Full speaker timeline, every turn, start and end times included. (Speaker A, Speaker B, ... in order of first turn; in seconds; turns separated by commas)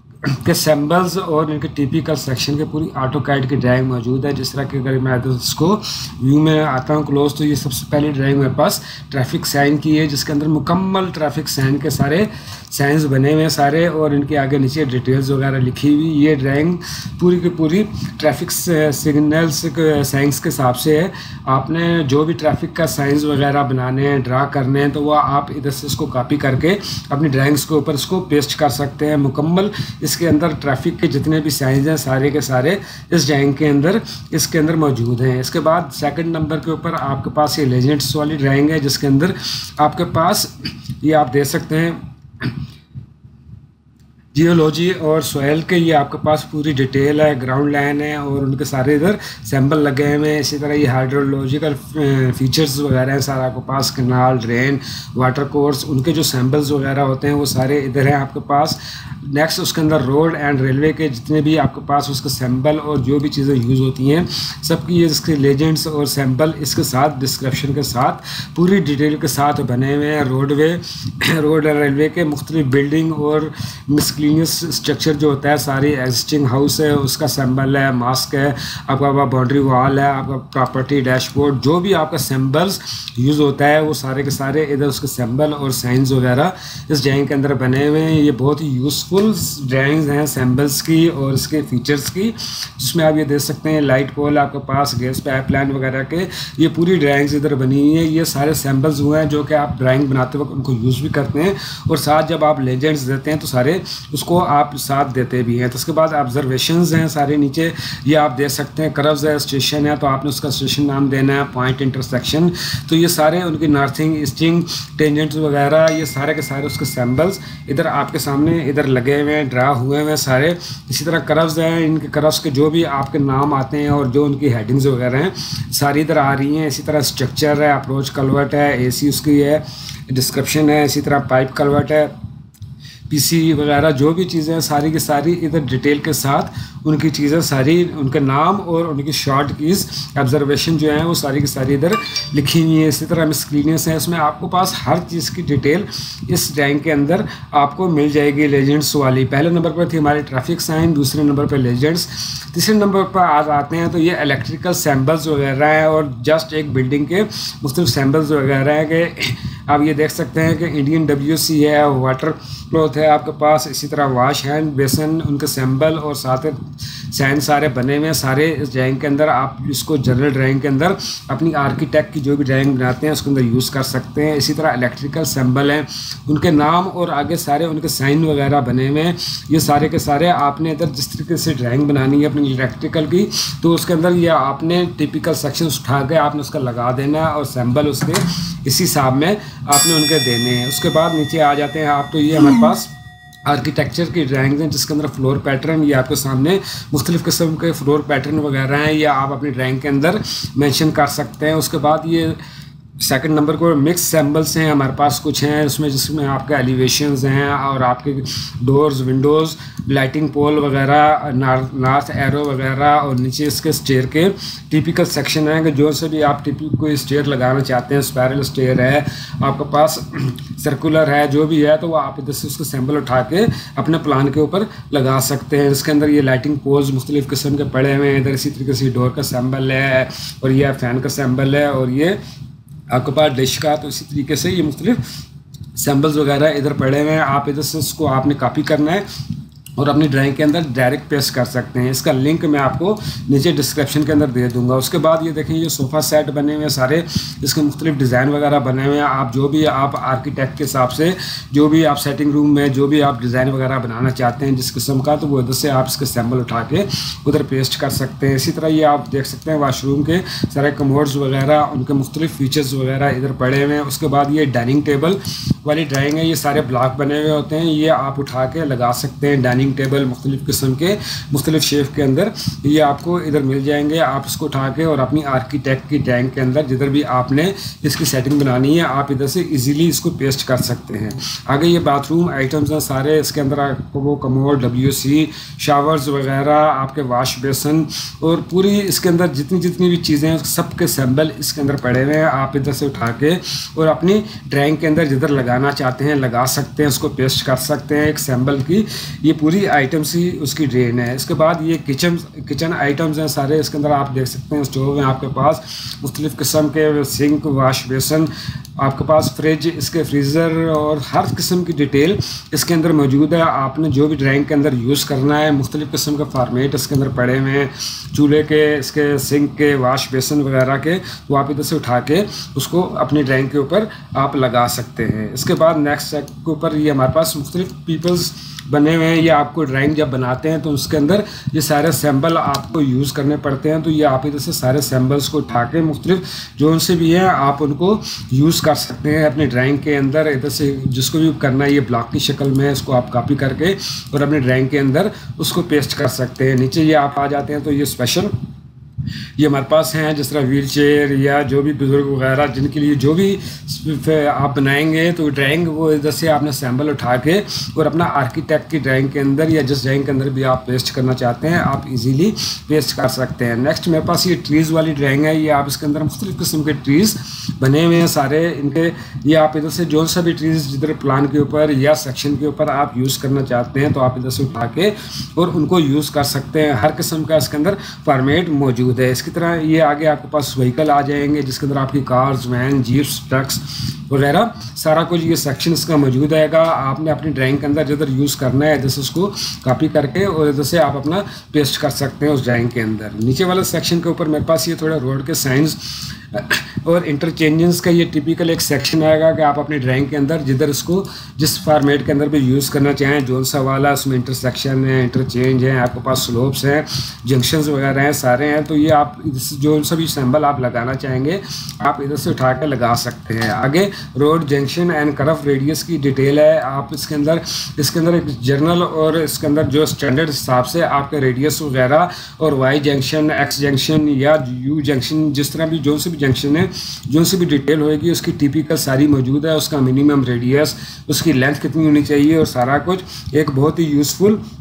Speaker A: 0.4-40.5, Speaker A: 41.0-42.5, Speaker A: 44.3-132.1, Speaker A: 133.1-166.6, Speaker A: 167.1-192.9, Speaker A: 193.4-202.4, Speaker A: 203.0-232.2, Speaker A: 232.9-235.0, Speaker A: 235.8-239.0, Speaker A: 239.8-348.3, Speaker A: 349.4-434.4